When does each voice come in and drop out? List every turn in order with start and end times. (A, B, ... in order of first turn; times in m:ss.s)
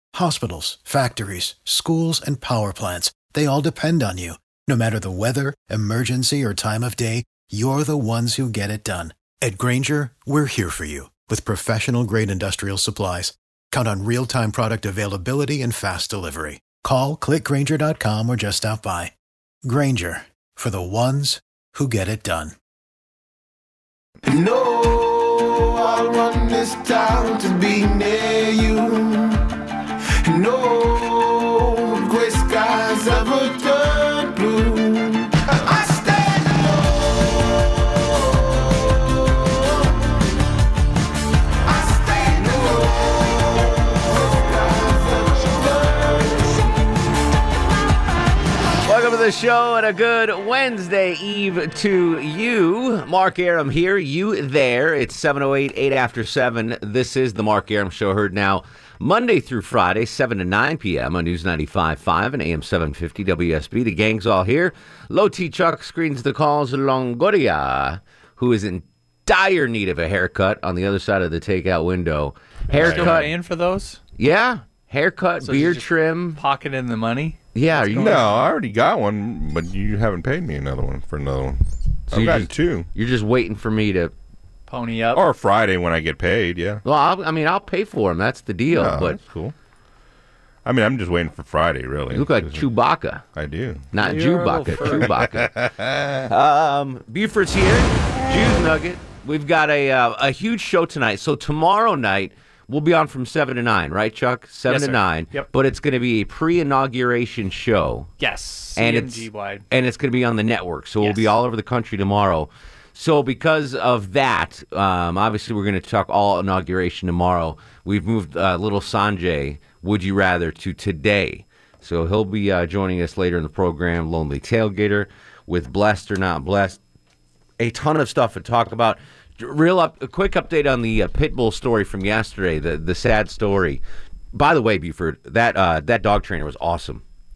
0:00.1-0:19.1 A
0:19.6-0:22.5 A
0:24.2-0:29.4 B
0:30.2-0:40.1 B
0:41.6-0:46.6 B
0:48.8-1:13.3 C
1:12.7-1:14.0 D
1:12.8-1:13.2 E
1:14.2-1:16.4 C
1:15.4-1:18.5 D
1:17.5-1:18.3 C
1:17.9-1:21.6 E
1:22.1-1:22.9 E
1:22.1-1:24.1 C
1:24.7-1:25.3 D
1:25.1-1:26.8 E
1:26.8-1:29.2 C
1:28.7-1:29.5 E
1:30.6-1:32.6 E
1:32.1-1:33.2 C
1:33.3-1:33.9 E
1:33.9-1:35.5 C
1:34.0-1:35.2 D
1:34.8-1:36.3 E
1:36.3-1:48.1 C
1:44.7-1:45.5 D
1:48.2-1:49.6 D
1:48.8-2:06.8 C
1:51.0-1:51.3 D
2:07.6-2:13.8 C
2:14.3-2:17.0 C